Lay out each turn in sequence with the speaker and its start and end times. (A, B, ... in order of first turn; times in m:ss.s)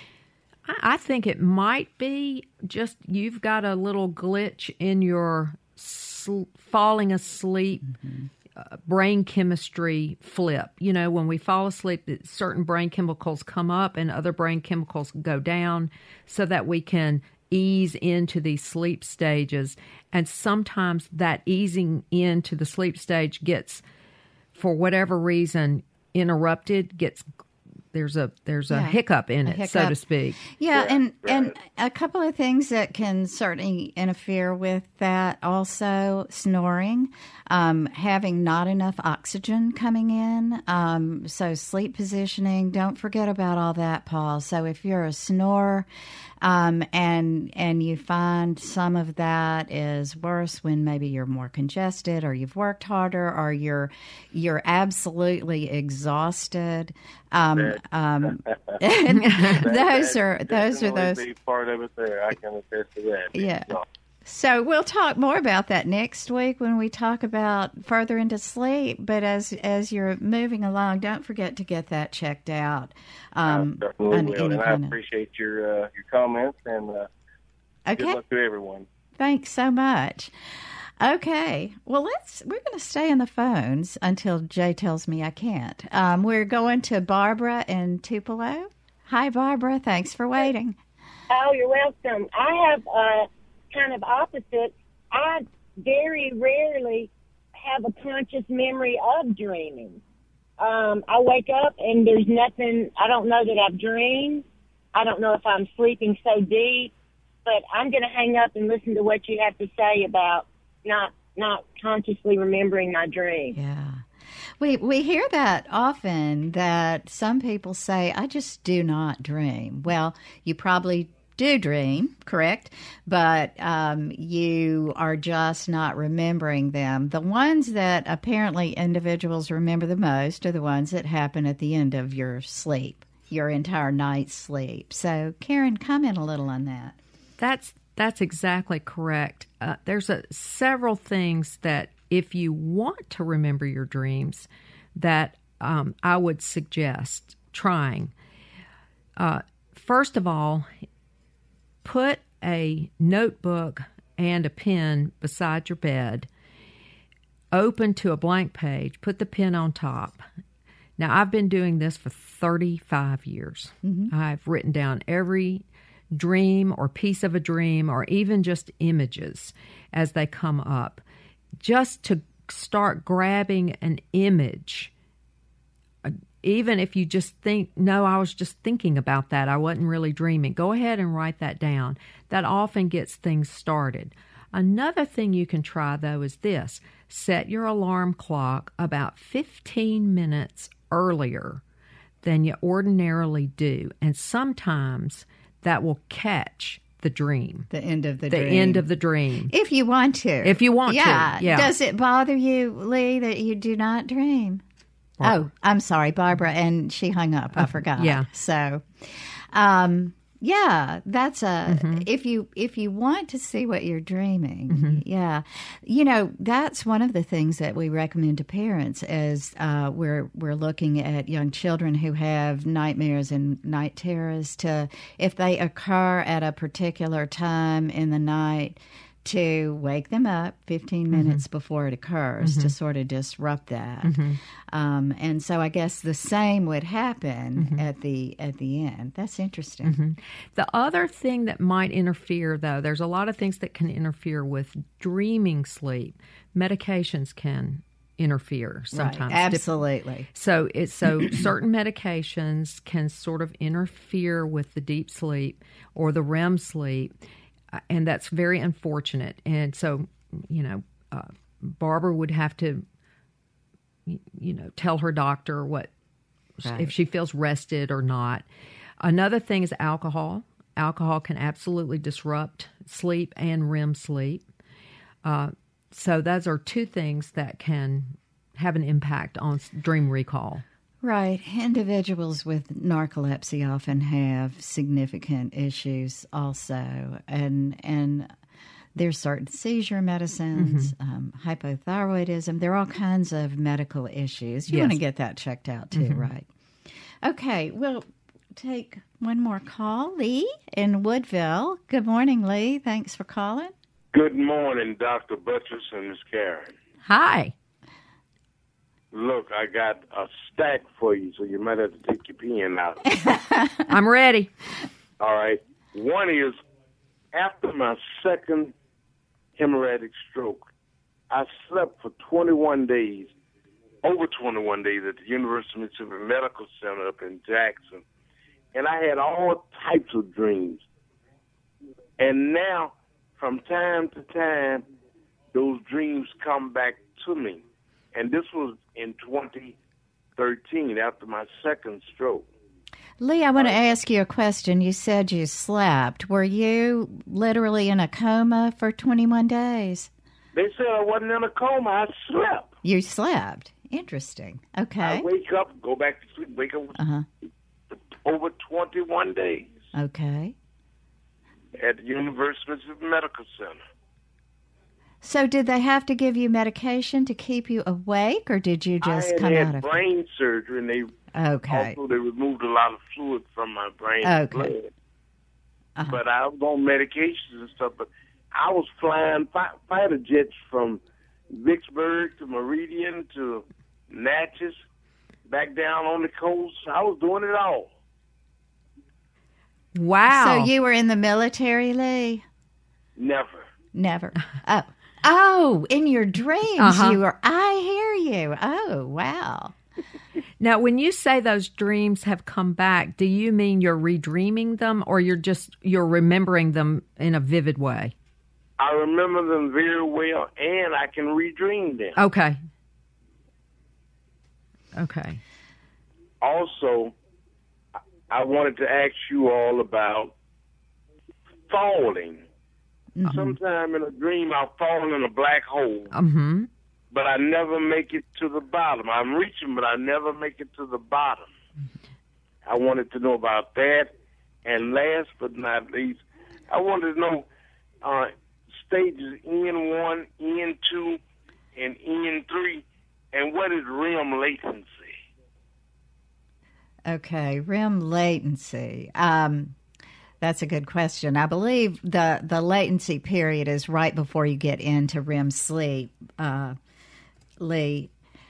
0:00.6-0:07.9 A
0:08.0-0:08.3 B
0:08.6-0:23.8 A
0:24.5-0:27.3 A
0:27.9-0:30.4 A
0:28.7-0:30.0 B
0:30.5-0:45.9 B
0:30.7-0:31.5 C
0:46.4-1:01.2 B
0:57.6-0:58.8 C
0:59.1-0:59.6 A
0:59.4-1:03.8 C
1:03.4-1:15.0 B
1:13.5-1:17.1 C
1:17.9-1:18.2 B
1:18.0-1:18.9 C
1:19.2-1:20.3 B
1:21.0-1:30.8 B
1:31.3-1:40.0 D
1:40.6-1:44.4 D
1:45.0-1:46.9 D
1:47.4-1:53.6 D
1:53.5-1:54.0 B
1:54.6-2:17.0 B
2:17.4-2:28.1 A
2:29.2-2:30.7 A
2:31.8-2:36.3 A
2:37.5-2:40.2 A
2:41.0-2:51.0 A
2:43.8-2:44.1 B
2:51.6-2:54.9 A
2:56.0-3:11.6 A
3:12.2-3:17.7 A
3:17.7-3:18.9 B
3:18.3-3:19.5 A
3:19.5-3:24.6 B
3:20.4-3:21.7 A
3:25.2-3:25.5 A
3:25.2-4:00.0 B
3:27.6-3:28.3 A
3:31.7-3:32.0 A
3:34.7-3:35.0 A
3:51.1-3:51.4 A
3:52.4-3:52.7 A
3:54.0-3:54.4 A
3:57.6-3:57.8 A
3:59.8-4:09.6 A
4:08.9-4:10.3 B
4:10.3-4:17.1 A
4:17.9-4:22.8 A
4:24.0-4:25.9 A
4:26.6-4:28.4 A
4:26.6-4:26.9 B
4:29.0-4:34.4 A
4:35.2-4:40.6 A
4:41.0-4:48.3 B
4:49.0-4:56.5 B
4:50.6-4:50.9 A
4:54.7-4:55.0 A
4:55.9-4:56.3 A
4:57.2-5:03.7 B
5:04.1-5:06.7 E
5:07.0-5:07.5 A
5:09.1-5:13.1 E
5:13.2-5:13.9 B
5:13.9-5:14.5 A
5:15.2-5:16.6 E
5:17.3-5:18.7 E
5:19.6-5:20.7 E
5:21.3-5:23.3 E
5:24.0-5:28.0 E
5:28.7-5:30.8 E
5:32.2-5:34.8 E
5:35.5-5:37.6 E
5:38.1-5:39.8 E
5:40.4-5:42.5 E
5:43.2-5:50.1 B
5:50.5-5:52.7 E
5:52.8-5:55.3 B
5:55.0-5:57.0 E
5:57.0-5:57.3 B
5:58.2-5:59.7 E
5:59.9-6:00.6 B
6:01.7-6:03.8 E
6:05.2-6:10.0 B
6:09.0-6:11.1 E
6:11.3-6:12.0 B
6:11.7-6:14.9 E
6:14.2-6:14.7 B
6:16.0-6:16.2 B
6:16.1-6:24.8 E
6:25.5-6:27.9 E
6:30.0-6:30.7 A
6:30.3-6:32.4 B
6:33.2-6:33.7 E
6:33.9-6:39.8 B
6:36.8-6:37.2 A
6:40.6-6:48.1 A
6:48.8-6:52.2 E
6:52.2-6:52.6 A
6:55.0-6:55.4 A
6:56.4-6:57.1 E
6:58.3-7:00.3 E
7:01.7-7:02.4 E
7:03.2-7:03.6 B
7:03.3-7:06.1 E
7:06.1-7:06.7 A
7:07.1-7:11.5 E
7:12.6-7:14.1 E
7:14.6-7:17.4 E
7:18.0-7:21.2 E
7:21.7-7:25.1 E
7:27.0-7:29.8 B
7:30.4-7:36.8 B
7:37.6-7:38.1 B